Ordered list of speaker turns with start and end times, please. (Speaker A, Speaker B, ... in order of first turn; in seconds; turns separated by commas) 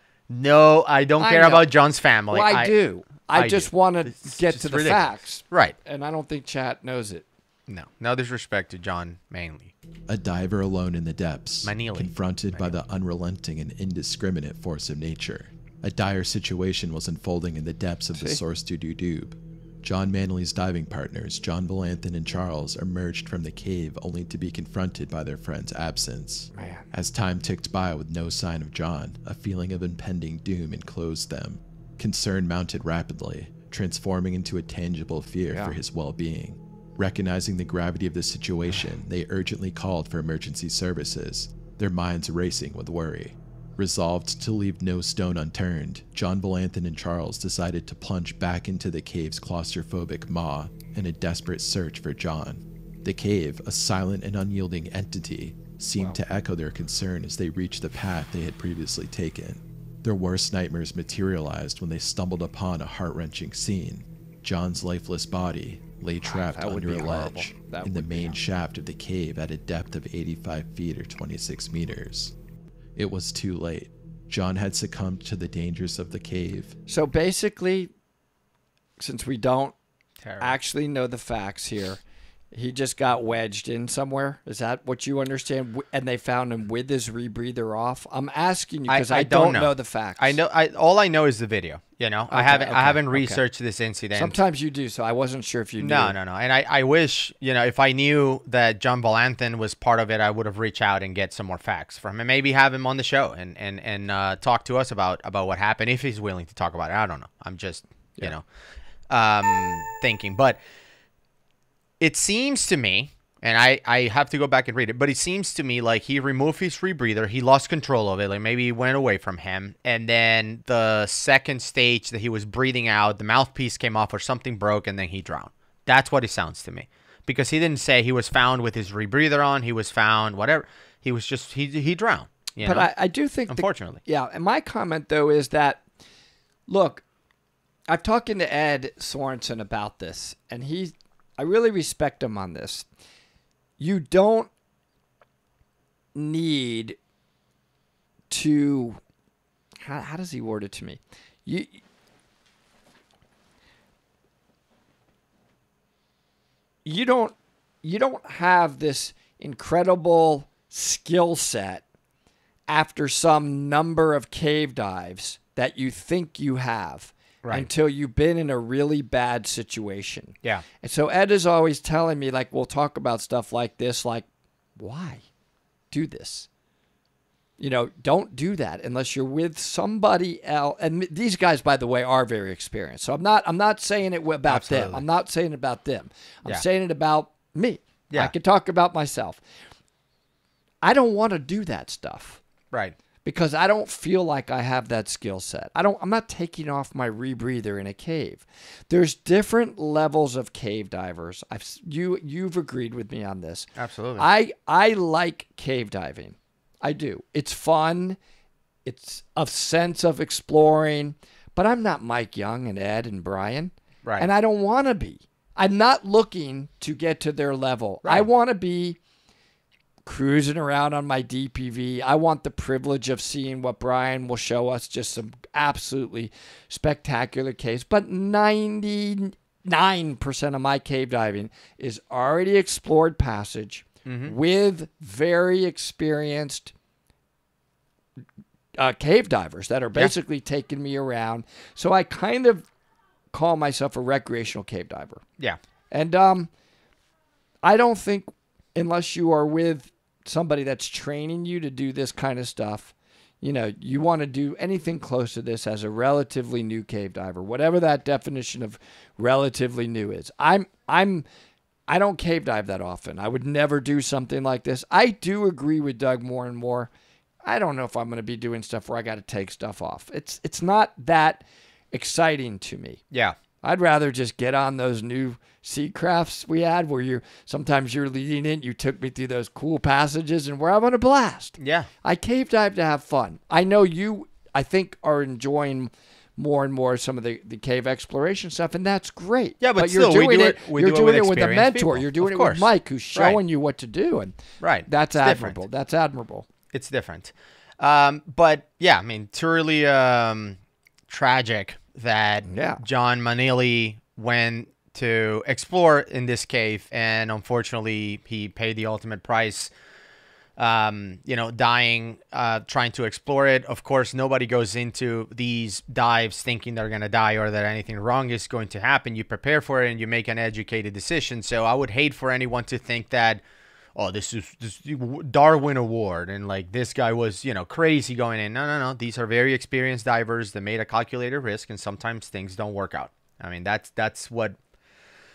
Speaker A: 0.3-2.7, Speaker B: 1.2-1.7, Speaker B: 2.3-7.2, Speaker A: 3.4-5.8, Speaker A: 7.7-9.7, Speaker C: 10.1-72.3, Speaker A: 11.6-12.8, Speaker B: 18.1-18.4, Speaker B: 26.5-26.9, Speaker B: 35.5-35.8, Speaker B: 66.2-68.4, Speaker C: 73.0-76.8, Speaker B: 76.9-77.9, Speaker B: 79.0-79.7, Speaker A: 80.2-80.6, Speaker B: 80.4-90.4, Speaker A: 88.9-94.4, Speaker B: 92.3-93.4, Speaker B: 94.2-96.2, Speaker A: 95.8-108.4, Speaker A: 109.1-110.6, Speaker A: 112.0-132.9, Speaker B: 132.6-135.8, Speaker A: 133.5-134.0, Speaker B: 136.7-137.0, Speaker B: 137.9-142.9, Speaker B: 143.8-144.5, Speaker B: 146.2-147.0, Speaker B: 148.3-149.0, Speaker B: 149.8-151.8, Speaker B: 156.8-161.8, Speaker B: 162.7-174.3, Speaker B: 174.8-175.2, Speaker B: 175.9-176.5, Speaker B: 177.6-189.4, Speaker A: 184.5-185.0, Speaker B: 190.8-192.4, Speaker B: 193.2-208.2, Speaker A: 203.8-204.3, Speaker B: 208.8-219.0, Speaker A: 214.0-214.3, Speaker B: 220.1-236.7, Speaker A: 234.1-234.4, Speaker B: 238.8-242.6, Speaker B: 243.3-245.2, Speaker B: 245.9-246.5, Speaker B: 247.6-261.2, Speaker B: 261.9-266.9, Speaker B: 267.4-273.0, Speaker A: 273.1-273.4, Speaker B: 273.6-294.4, Speaker A: 281.6-281.9, Speaker A: 289.6-293.4, Speaker A: 294.6-295.6, Speaker B: 294.9-296.5, Speaker A: 296.7-300.6, Speaker A: 301.1-309.7, Speaker B: 302.5-302.8, Speaker A: 310.6-323.4, Speaker A: 324.0-334.6